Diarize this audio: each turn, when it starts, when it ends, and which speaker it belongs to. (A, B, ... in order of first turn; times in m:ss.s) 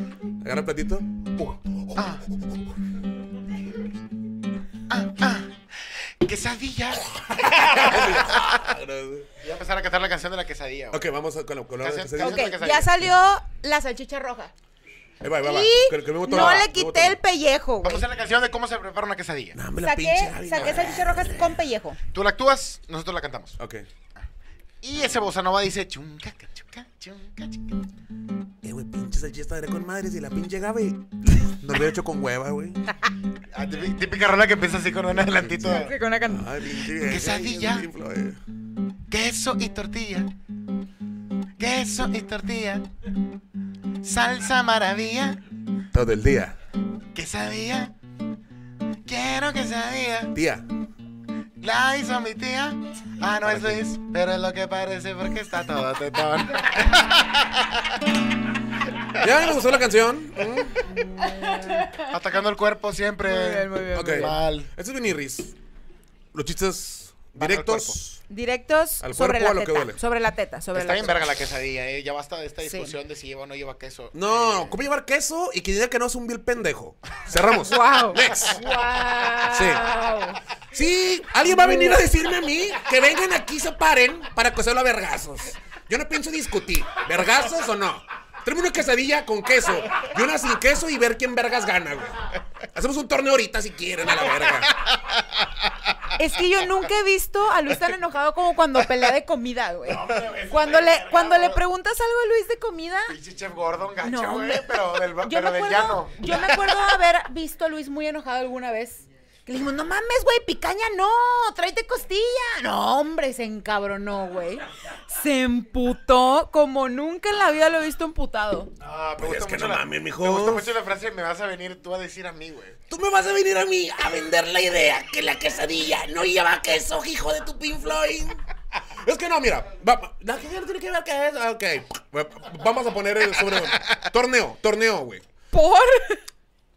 0:00.4-0:02.2 A
0:02.0-0:02.2 B
0:04.9-0:08.6 B
0:07.2-0:09.3 A
0:09.4-0:11.0 B
0:10.9-0:12.5 A
0:11.8-0:13.0 B
0:12.2-0:14.5 C
0:15.2-0:17.2 A
0:15.4-0:18.0 C
0:16.3-0:16.7 B
0:17.8-0:19.6 B
0:19.5-0:21.6 A
0:19.8-0:22.0 C
0:22.1-0:23.6 B
0:23.6-0:23.8 A
0:24.8-0:27.8 B
0:28.6-0:32.8 A
0:33.5-0:35.9 B
0:35.4-0:38.4 A
0:35.6-0:36.5 C
0:36.9-0:37.9 B
0:39.1-0:40.3 B
0:41.6-0:42.9 B
0:44.0-0:45.4 B
0:45.9-0:46.6 A
0:47.1-0:47.9 B
0:49.0-0:50.3 B
0:50.3-0:50.6 A
0:51.6-0:57.7 B
0:53.4-0:53.8 A
0:59.2-1:01.0 A
1:01.2-1:02.1 C
1:02.0-1:04.7 B
1:03.2-1:04.4 C
1:03.9-1:05.5 A
1:06.3-1:08.2 A
1:07.3-1:08.0 B
1:08.3-1:11.2 C
1:09.0-1:10.0 A
1:10.7-1:14.8 B
1:12.6-1:12.9 C
1:14.1-1:18.6 A
1:17.6-1:20.4 C
1:19.4-1:20.0 A
1:20.7-1:34.9 A
1:21.4-1:22.0 C
1:36.1-1:43.2 C
1:39.9-1:41.6 B
1:43.1-1:46.9 B
1:44.0-1:58.7 C
1:58.8-2:02.8 B
1:59.2-2:00.8 A
2:02.9-2:15.2 A
2:15.5-2:16.2 C